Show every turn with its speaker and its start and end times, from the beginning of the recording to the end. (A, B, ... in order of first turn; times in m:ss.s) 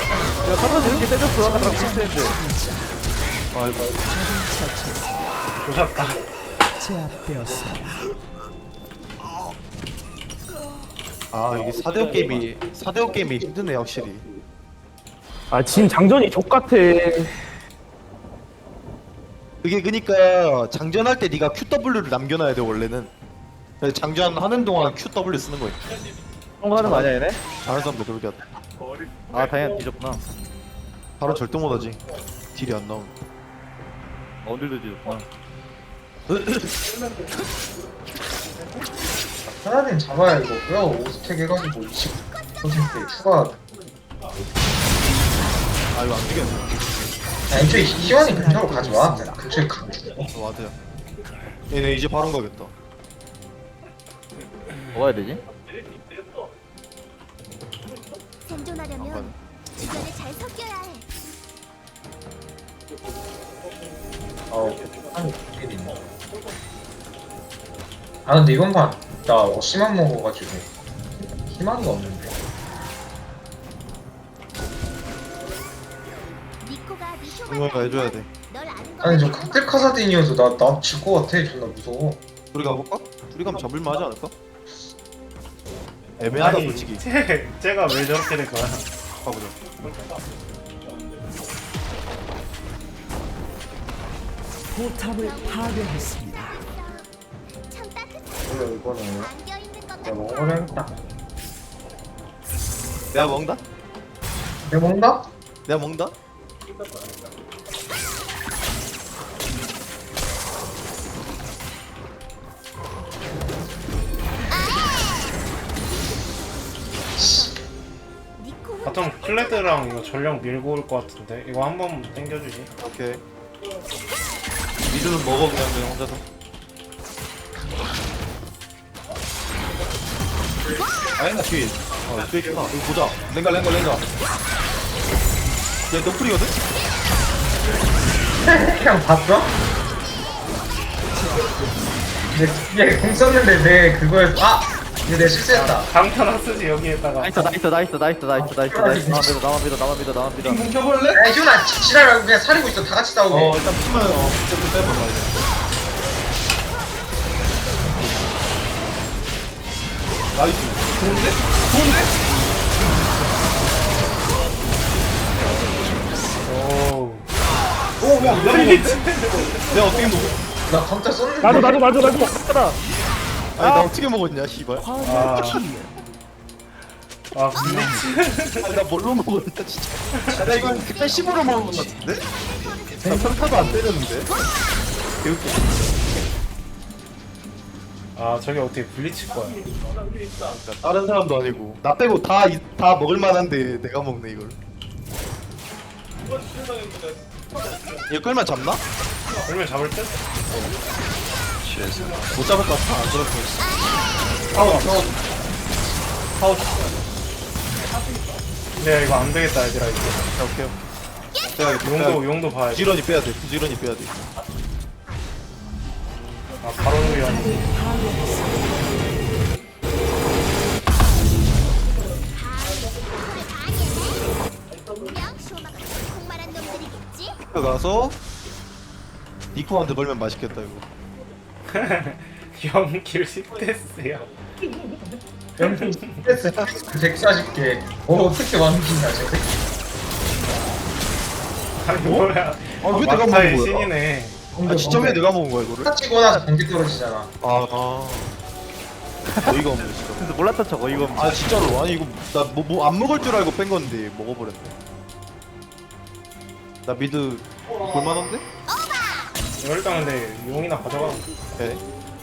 0:00.4-0:02.3 A
0:00.5-0:03.0 B
0:03.5-0:04.0 C
0:04.0-0:05.5 B
0:05.6-0:06.2 D
0:06.8-0:08.1 B
0:11.3-0:14.2 C
0:15.5-0:17.4 E
0:19.6-0:23.1 C
0:23.8-0:25.9 C
0:26.6-0:27.4 A
0:26.8-0:27.1 C
0:27.6-0:28.4 C
0:29.3-0:30.2 A
0:31.2-0:32.0 C
0:32.5-0:33.1 C
0:34.4-0:35.2 A
0:36.3-0:36.7 C
0:39.4-0:43.6 F
0:45.9-0:47.1 C
0:47.5-0:50.3 F
0:47.6-0:49.5 B
0:50.3-0:50.8 C
0:51.7-0:52.7 C
0:54.9-0:55.4 A
0:58.4-1:01.1 G
0:59.0-0:59.3 C
1:04.5-1:06.0 F
1:08.2-1:12.4 F
1:16.6-1:20.0 G
1:17.3-1:18.3 C
1:19.0-1:22.2 F
1:22.5-1:24.3 C
1:26.2-1:27.0 C
1:26.3-1:28.9 D
1:29.2-1:29.6 C
1:34.7-1:36.6 B
1:35.2-1:37.1 G
1:37.6-1:40.8 G
1:38.5-1:39.3 F
1:40.0-1:41.0 F
1:43.1-1:43.6 C
1:44.6-1:45.3 F
1:45.6-1:46.1 C
1:54.5-1:57.6 G
1:57.2-1:57.6 F
1:58.4-2:00.3 G
1:58.8-2:02.7 D
2:02.8-2:03.2 C
2:04.9-2:06.2 C
2:11.2-2:14.0 C
2:15.9-2:16.6 C
2:18.4-2:19.5 F
2:21.1-2:21.6 B
2:22.3-2:25.9 F
2:25.5-2:27.5 D
2:27.2-2:30.7 A
2:28.4-2:29.4 F
2:30.4-2:31.2 C
2:31.1-2:33.6 F
2:33.3-2:35.4 C
2:40.3-2:42.1 C
2:45.6-2:46.4 B
2:46.4-2:47.2 D
2:48.0-2:49.1 C
2:48.0-2:49.5 D
2:49.6-2:50.4 C
2:50.7-2:51.8 F
2:51.4-2:52.4 E
2:51.4-2:52.8 A
2:53.6-2:54.9 C
2:53.6-2:53.9 A
2:54.8-2:56.0 B
2:55.0-2:55.7 D
2:57.3-2:58.7 D
2:57.5-2:58.3 B
2:58.6-3:02.3 C
3:00.1-3:00.6 D
3:00.7-3:04.6 G
3:03.0-3:04.3 C
3:03.0-3:03.7 F
3:05.2-3:05.8 C
3:08.2-3:09.7 D
3:10.4-3:14.6 C
3:18.1-3:18.8 C
3:19.4-3:20.2 D
3:21.8-3:23.7 C
3:24.5-3:25.2 C
3:24.6-3:24.9 D
3:26.4-3:26.8 C
3:28.8-3:30.3 D
3:30.3-3:30.8 C
3:31.6-3:34.2 C
3:31.8-3:32.9 D
3:36.6-3:37.6 D
3:36.8-3:39.0 B
3:42.3-3:47.4 G
3:47.5-3:48.2 C
3:49.5-3:50.8 C
3:51.7-3:54.3 D
3:55.6-3:56.3 D
3:55.6-3:59.6 F
3:56.4-3:56.7 C
4:01.8-4:04.4 D
4:02.0-4:02.3 C
4:02.8-4:03.9 C
4:04.5-4:05.3 F
4:04.6-4:05.9 C
4:05.8-4:07.3 F
4:07.4-4:08.3 C
4:09.3-4:09.5 A
4:09.4-4:10.2 C
4:10.2-4:11.4 A
4:11.2-4:14.7 C
4:16.8-4:18.4 C
4:18.7-4:19.4 G
4:19.6-4:21.3 D